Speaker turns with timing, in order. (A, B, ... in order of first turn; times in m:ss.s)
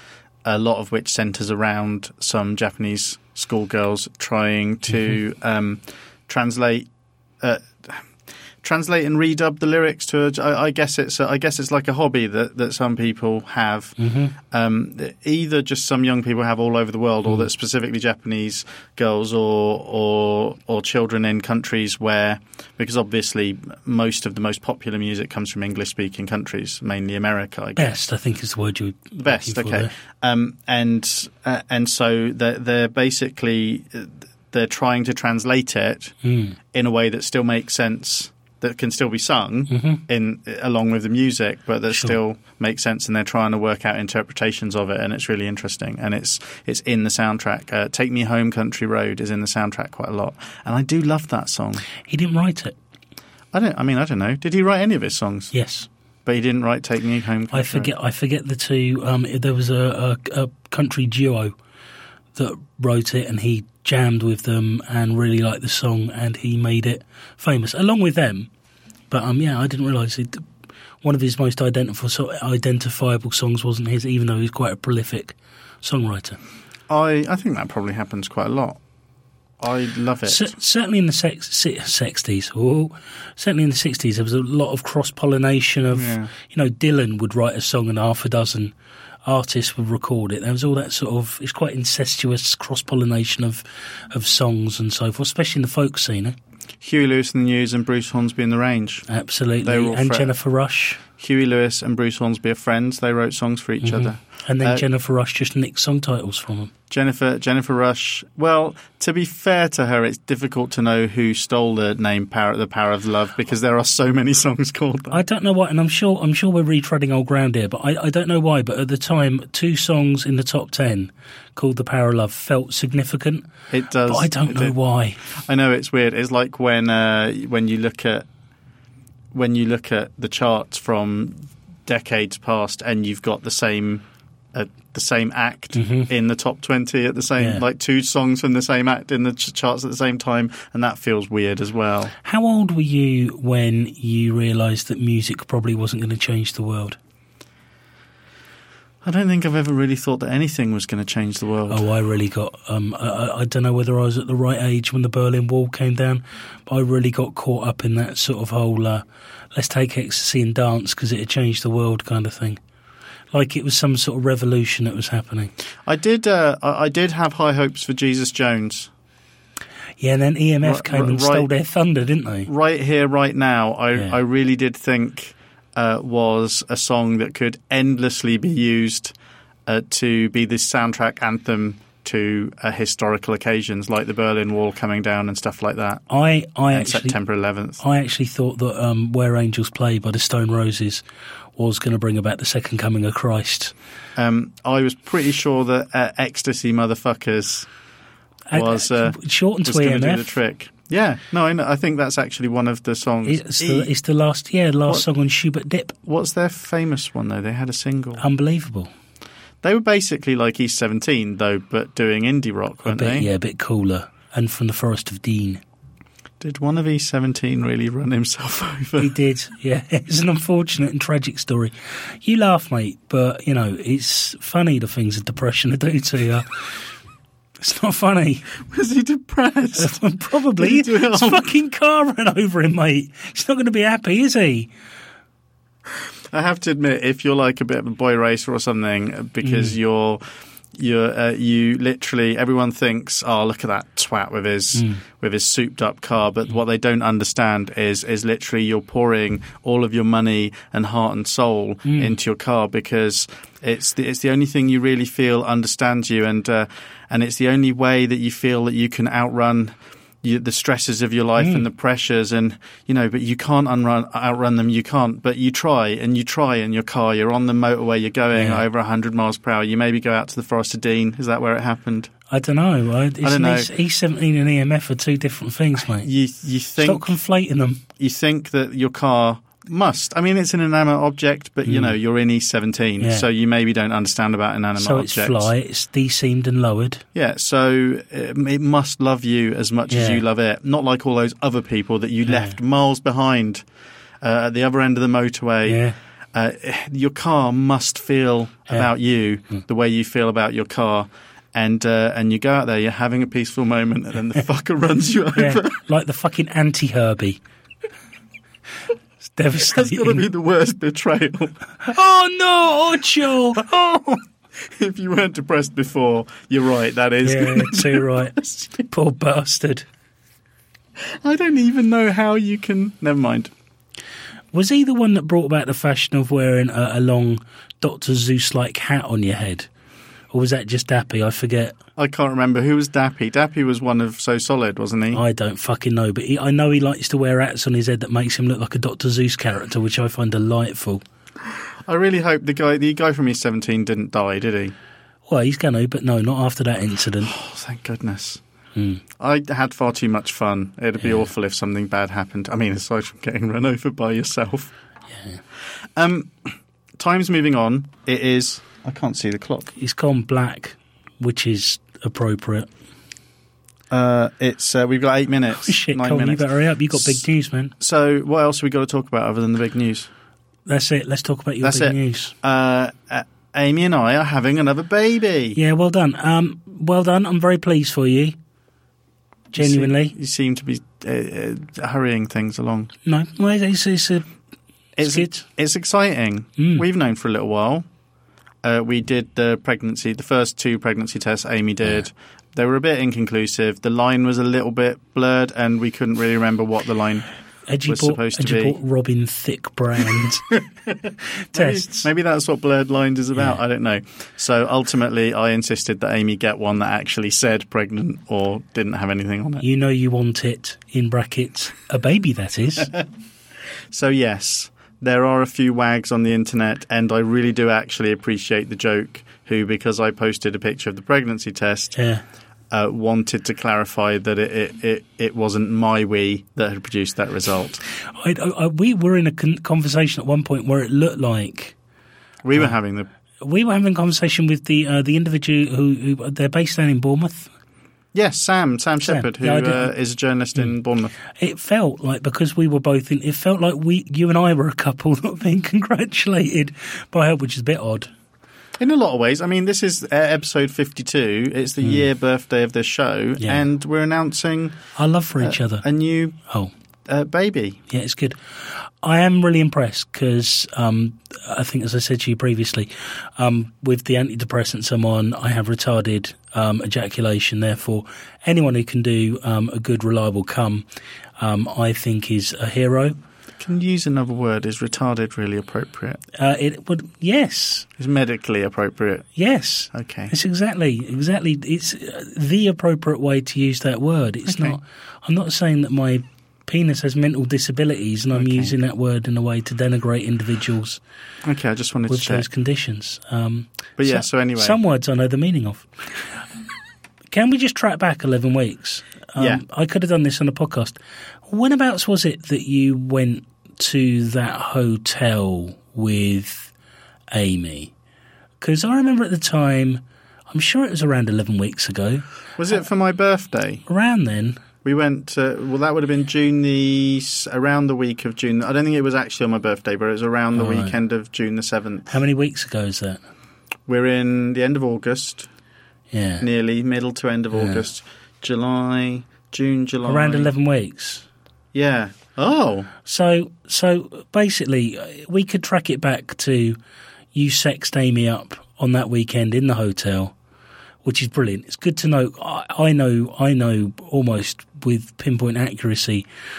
0:00.4-0:06.9 A
0:07.4-0:08.1 A
0:08.6-0:28.0 A
0:14.0-0:14.3 B
0:27.8-0:29.9 B
0:29.2-0:36.1 A
0:36.2-0:36.6 B
0:36.7-0:51.8 A
0:39.7-0:40.0 B
0:41.9-0:42.2 B
0:52.0-0:52.8 B
0:53.5-0:55.5 A
0:55.5-0:55.9 B
0:56.2-0:57.9 A
0:57.5-1:01.5 B
1:02.3-1:08.5 B
1:09.1-1:10.4 B
1:11.0-1:16.4 B
1:16.9-1:18.8 A
1:19.6-1:20.5 A
1:20.2-1:28.7 B
1:25.9-1:26.3 A
1:29.2-1:36.4 B
1:36.8-1:39.0 A
1:39.1-1:41.0 B
1:39.6-1:40.3 A
1:41.2-1:44.8 A
1:43.8-1:46.7 B
1:46.9-1:55.2 A
1:55.1-2:03.5 B
2:03.7-2:08.2 A
2:04.0-2:05.2 B
2:09.3-2:22.1 A
2:15.7-2:16.1 B
2:22.2-2:27.0 B
2:29.0-2:31.8 A
2:31.7-2:42.6 B
2:43.3-2:45.5 B
2:45.8-2:48.9 A
2:50.0-2:52.5 B
2:50.6-2:51.5 A
2:52.5-2:59.1 A
2:59.7-3:06.0 A
3:06.1-3:07.2 B
3:06.7-3:07.8 A
3:07.8-3:11.0 B
3:11.6-3:13.7 B
3:14.2-3:17.7 A
3:18.5-3:20.4 B
3:18.5-3:23.9 A
3:23.2-3:26.0 B
3:26.0-3:28.2 A
3:28.2-3:28.9 B
3:29.6-3:33.3 A
3:32.8-3:35.6 B
3:36.4-3:39.1 A
3:39.0-3:46.8 B
3:47.6-3:48.5 B
3:48.6-3:50.0 A
3:49.8-3:54.7 B
3:50.6-3:51.5 A
3:56.3-4:00.2 A
3:59.4-3:59.8 B
4:00.7-4:32.1 A
4:11.8-4:12.1 B
4:21.4-4:21.6 B
4:28.3-4:28.6 B
4:32.3-4:36.1 B
4:33.2-4:33.7 A
4:36.0-4:37.2 A
4:36.8-4:37.8 B
4:38.0-4:45.5 A
4:41.6-4:42.0 B
4:43.0-4:43.3 B
4:44.8-4:47.0 B
4:47.1-4:53.6 A
4:49.9-4:50.2 B
4:52.3-4:52.6 B
4:54.2-4:55.8 A
4:55.6-4:56.0 B
4:56.3-5:05.8 A
5:05.3-5:07.4 B
5:09.3-5:10.2 B
5:09.6-5:11.6 A
5:11.8-5:13.6 B
5:13.6-5:18.8 A
5:17.2-5:19.8 B
5:21.2-5:23.5 A
5:24.5-5:29.7 B
5:30.3-5:31.8 B
5:32.0-5:35.2 A
5:35.1-5:41.0 B
5:41.9-5:44.7 A
5:45.3-5:47.3 B
5:47.2-5:48.4 A
5:48.7-5:49.0 B
5:49.2-5:54.7 A
5:51.0-5:51.3 B
5:55.1-5:55.4 B
5:56.0-5:59.7 A
5:59.8-6:02.7 B
6:03.9-6:07.2 A
6:05.5-6:07.7 B
6:07.8-6:10.1 A
6:10.6-6:12.3 B
6:11.6-6:15.6 A
6:15.6-6:18.4 B
6:19.5-6:22.9 A
6:19.5-6:20.1 B
6:23.0-6:24.2 B
6:25.0-6:27.8 A
6:25.0-6:25.4 B
6:26.6-6:26.8 B
6:28.6-6:37.3 A
6:37.7-6:40.6 B
6:37.8-6:38.8 A
6:40.5-6:49.6 A
6:41.4-6:42.1 B
6:49.6-6:52.9 B
6:53.9-7:02.0 A
7:02.0-7:02.2 B
7:02.7-7:07.8 A
7:08.1-7:11.7 B
7:12.4-7:13.1 A
7:13.4-7:17.5 B
7:18.1-7:21.1 A
7:19.0-7:19.9 B
7:21.3-7:28.1 B
7:28.8-7:34.8 A
7:33.4-7:33.6 B
7:34.9-7:35.8 B
7:35.4-7:36.4 A
7:37.1-7:37.8 A
7:37.9-7:50.8 B
7:51.4-7:53.2 B
7:53.6-7:56.2 A
7:56.3-7:57.9 B
7:58.0-7:59.3 A
7:59.3-8:11.0 B
7:59.9-8:00.3 A
8:04.4-8:04.8 A
8:08.3-8:08.7 A
8:11.4-8:12.4 A
8:12.1-8:15.9 B
8:14.0-8:14.8 A
8:17.3-8:26.7 B
8:19.4-8:19.6 A
8:27.3-8:27.9 B
8:28.6-8:32.2 B
8:32.6-8:33.8 A
8:33.9-8:34.6 B
8:34.8-8:42.1 A
8:40.6-8:40.9 B
8:42.1-8:43.2 B
8:43.9-8:45.5 A
8:46.1-8:46.4 B
8:46.4-8:50.5 A
8:47.5-8:47.8 B
8:50.0-8:51.2 B
8:51.7-8:52.9 A
8:53.0-8:56.8 B
8:57.3-9:00.3 B
9:01.0-9:06.2 B